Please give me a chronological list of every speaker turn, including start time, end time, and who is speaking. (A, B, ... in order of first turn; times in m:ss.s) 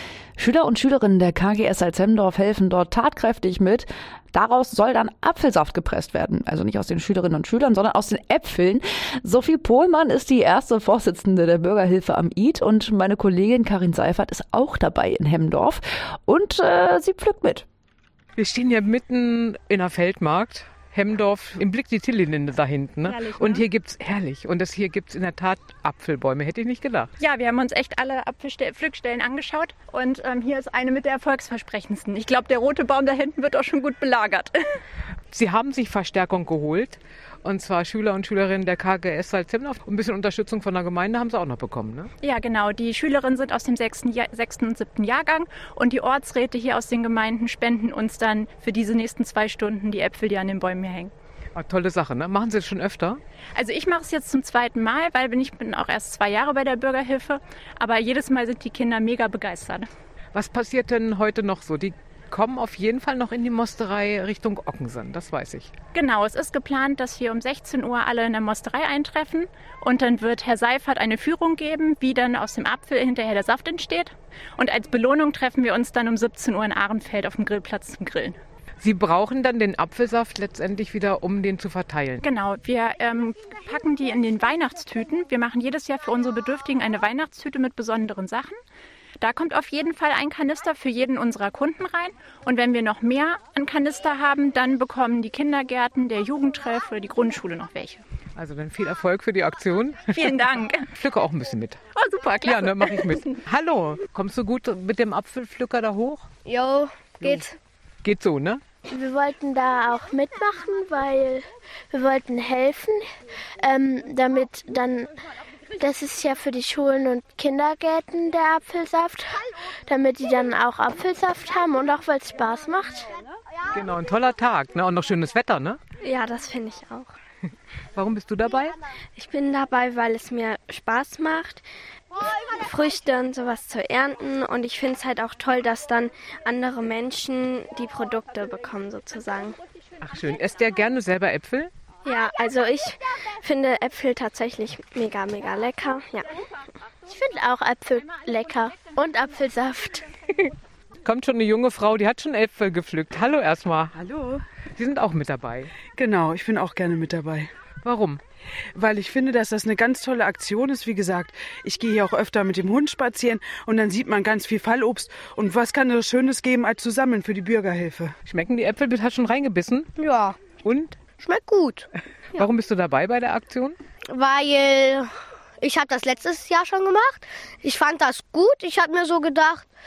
0:00.4-0:17.7 A
0:18.4-0:27.1 B
0:23.1-0:23.6 C
0:27.2-0:34.6 C
0:35.3-0:42.1 B
0:42.2-0:51.1 C
0:51.6-0:53.2 B
0:53.6-0:59.9 C
1:00.3-1:05.7 B
1:05.9-1:18.4 C
1:18.8-1:22.2 B
1:22.2-1:28.6 C
1:29.2-1:38.0 C
1:38.4-1:40.1 B
1:40.1-1:40.9 C
1:40.9-1:41.8 B
1:42.0-1:43.3 C
1:42.4-1:46.3 B
1:46.5-1:47.6 D
1:48.0-1:48.6 B
1:48.9-1:53.0 E
1:53.6-1:55.1 E
1:55.8-2:03.1 E
2:03.7-2:05.8 B
2:06.0-2:07.1 F
2:08.0-2:08.8 B
2:09.2-2:11.7 F
2:12.5-2:19.6 F
2:20.0-2:21.7 B
2:22.0-2:26.3 F
2:27.1-2:30.0 E
2:31.0-2:34.0 B
2:34.0-2:34.4 G
2:34.8-2:35.7 B
2:36.0-2:37.5 G
2:37.8-2:38.2 B
2:38.8-2:48.1 G
2:48.3-2:49.9 B
2:50.0-2:50.4 D
2:50.5-2:51.0 B
2:51.2-2:51.9 D
2:52.4-2:53.8 B
2:54.1-2:55.1 D
2:55.6-2:59.7 D